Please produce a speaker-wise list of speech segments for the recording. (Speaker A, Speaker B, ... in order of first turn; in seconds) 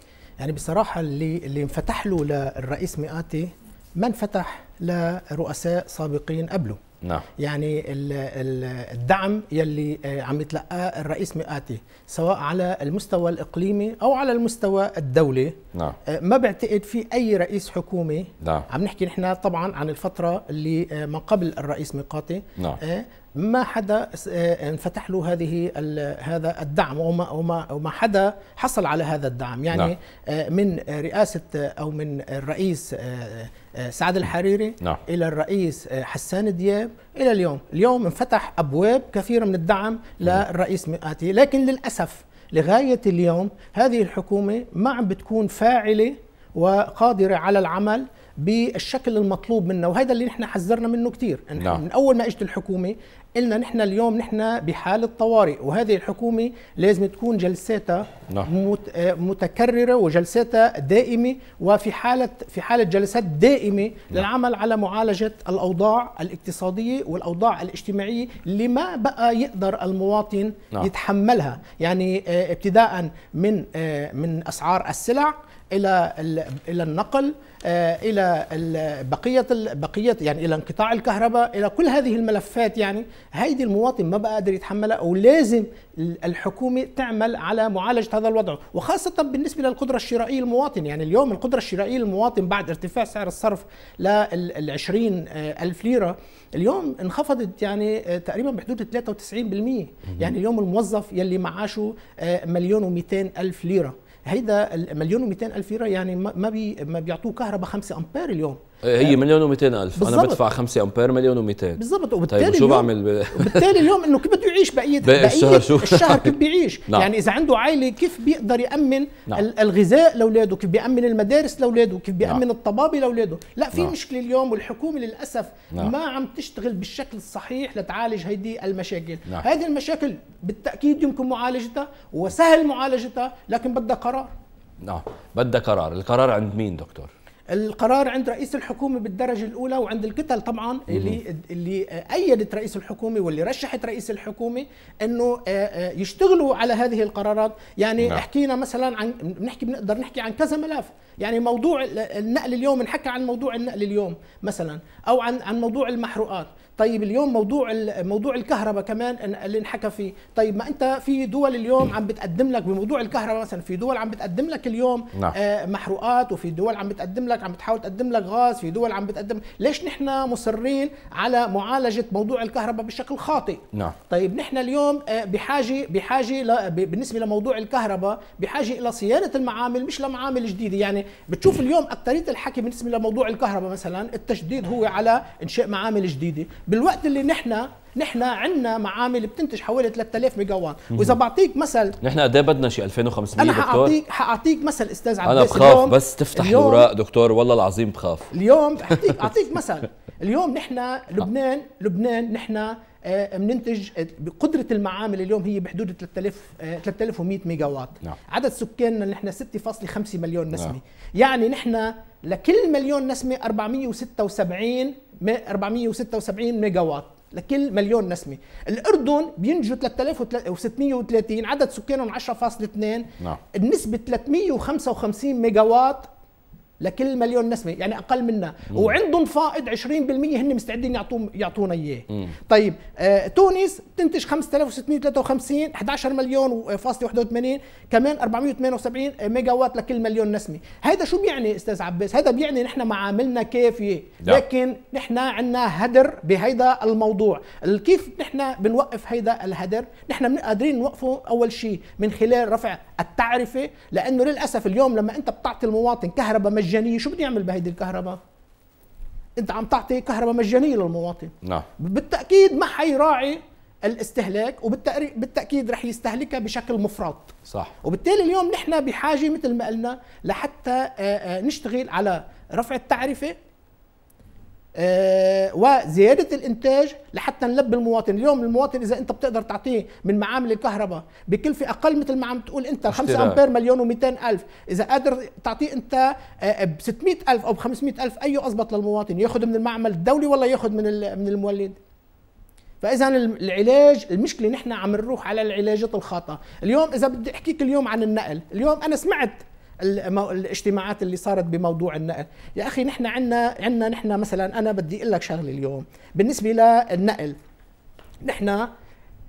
Speaker A: 0.4-6.8, 7.4-109.2, 110.0-110.4, 111.8-134.3, 137.5-192.0, 193.4-196.9, 198.3-226.1, 226.8-258.2, 259.4-273.4, 274.8-291.8, 292.8-307.4, 308.2-308.7
Speaker B: 7.0-7.3, 18.4-18.7, 108.8-113.9, 115.0-116.3, 134.8-137.1, 140.9-141.2, 192.0-193.9, 195.2-198.3, 198.9-199.2, 267.5-267.7, 282.9-283.4